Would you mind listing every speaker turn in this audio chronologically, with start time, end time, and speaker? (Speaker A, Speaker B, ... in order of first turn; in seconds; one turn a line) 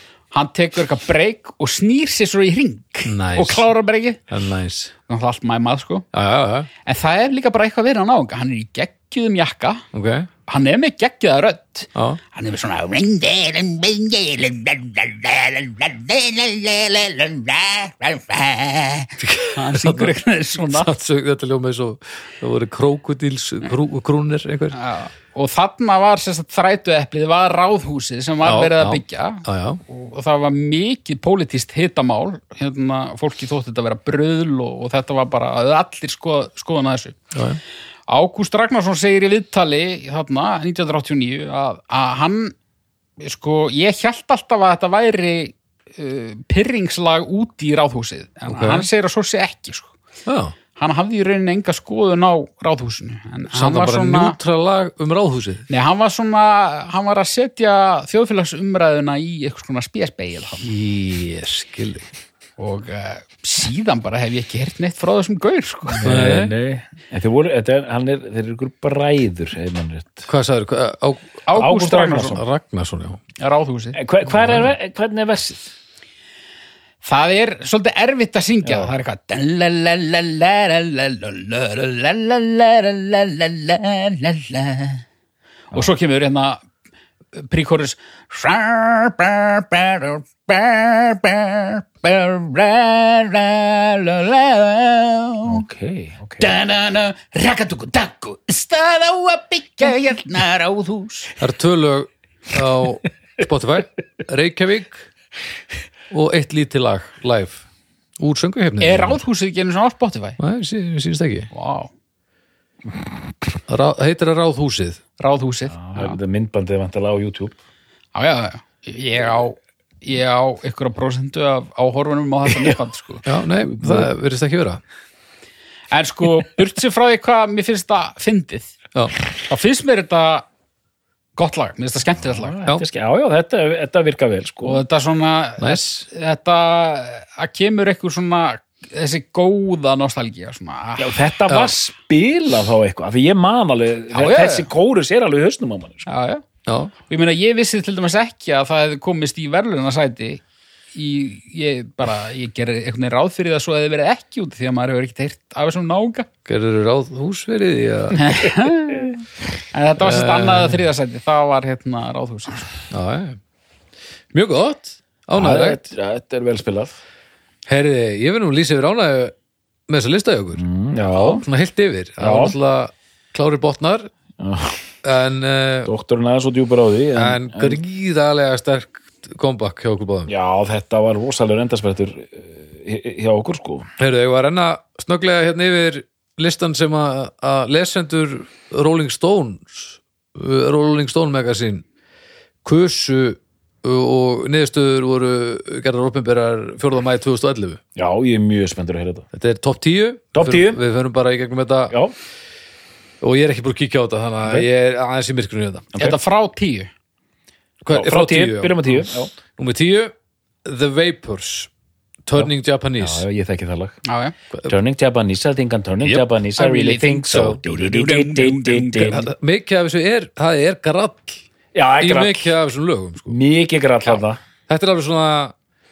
Speaker A: 0.3-4.2
Speaker B: 3.0-3.7
Speaker B: 4.3-4.9
Speaker A: 5.1-6.0
Speaker B: 6.1-6.7
Speaker A: 6.8-9.8
Speaker B: 9.9-10.3
Speaker A: 10.5-20.9
Speaker B: 11.9-12.2
Speaker B: 19.2-24.8
Speaker A: 24.7-37.2
Speaker B: 28.4-29.8
Speaker B: 37.3-37.6
Speaker A: 38.1-42.5
Speaker A: 43.2-49.9
Speaker B: 48.5-48.9
Speaker B: 50.2-50.5
Speaker A: 50.8-54.4
Speaker B: 53.5-55.6
Speaker A: 55.7-60.7
Speaker B: 60.6-62.1
Speaker A: 62.6-66.0
Speaker C: 66.0-70.3
Speaker B: 66.0-66.5
Speaker B: 70.3-71.4
Speaker A: 71.5-72.4
Speaker C: 71.5-72.4
Speaker B: 72.2-73.2
Speaker A: 73.4-74.0
Speaker C: 73.9-75.7
Speaker B: 74.3-74.7
Speaker A: 77.0-85.0
Speaker C: 78.6-78.9
Speaker A: 85.7-86.6
Speaker A: 87.3-95.6
Speaker C: 95.5-96.5
Speaker A: 96.4-101.3
Speaker B: 101.4-105.1
Speaker B: 106.1-107.6
Speaker B: 108.2-109.2
Speaker A: 108.8-110.4
Speaker B: 110.4-111.5
Speaker A: 111.5-111.9
Speaker B: 113.7-115.0
Speaker A: 115.2-116.2
Speaker C: 115.7-117.5
Speaker A: 118.1-123.2
Speaker B: 123.2-124.8
Speaker C: 123.7-124.1
Speaker A: 125.9-128.7
Speaker A: 129.4-130.5
Speaker A: 131.3-132.6
Speaker C: 132.2-134.8
Speaker A: 134.6-141.2
Speaker B: 135.6-136.0
Speaker C: 141.0-146.1
Speaker B: 141.5-141.7
Speaker A: 144.1-144.7
Speaker A: 146.1-146.4
Speaker B: 146.7-146.9
Speaker A: 147.1-150.4
Speaker A: 150.9-156.3
Speaker B: 156.4-158.3
Speaker A: 158.1-159.2
Speaker A: 159.7-162.7
Speaker B: 160.0-160.8
Speaker B: 162.9-163.4
Speaker B: 164.3-165.8
Speaker C: 165.3-166.9
Speaker B: 167.7-169.3
Speaker B: 169.9-174.1
Speaker C: 170.6-171.4
Speaker C: 172.2-172.5
Speaker C: 174.4-174.8
Speaker B: 175.0-175.9
Speaker C: 175.8-177.8
Speaker B: 177.2-180.3
Speaker C: 180.3-183.9
Speaker B: 184.0-191.8
Speaker B: 192.6-197.8
Speaker C: 197.9-199.2
Speaker B: 199.3-202.0
Speaker C: 200.3-200.8
Speaker B: 203.2-205.9
Speaker A: 206.0-206.9
Speaker B: 207.8-210.1
Speaker C: 207.9-209.3
Speaker B: 210.6-211.7
Speaker B: 212.2-213.2
Speaker C: 212.3-214.0
Speaker A: 214.0-214.3
Speaker C: 214.7-219.2
Speaker A: 216.6-219.2
Speaker B: 217.3-217.6
Speaker B: 219.1-221.4
Speaker C: 221.7-222.5
Speaker B: 222.0-223.4
Speaker C: 223.3-224.4
Speaker B: 224.7-225.5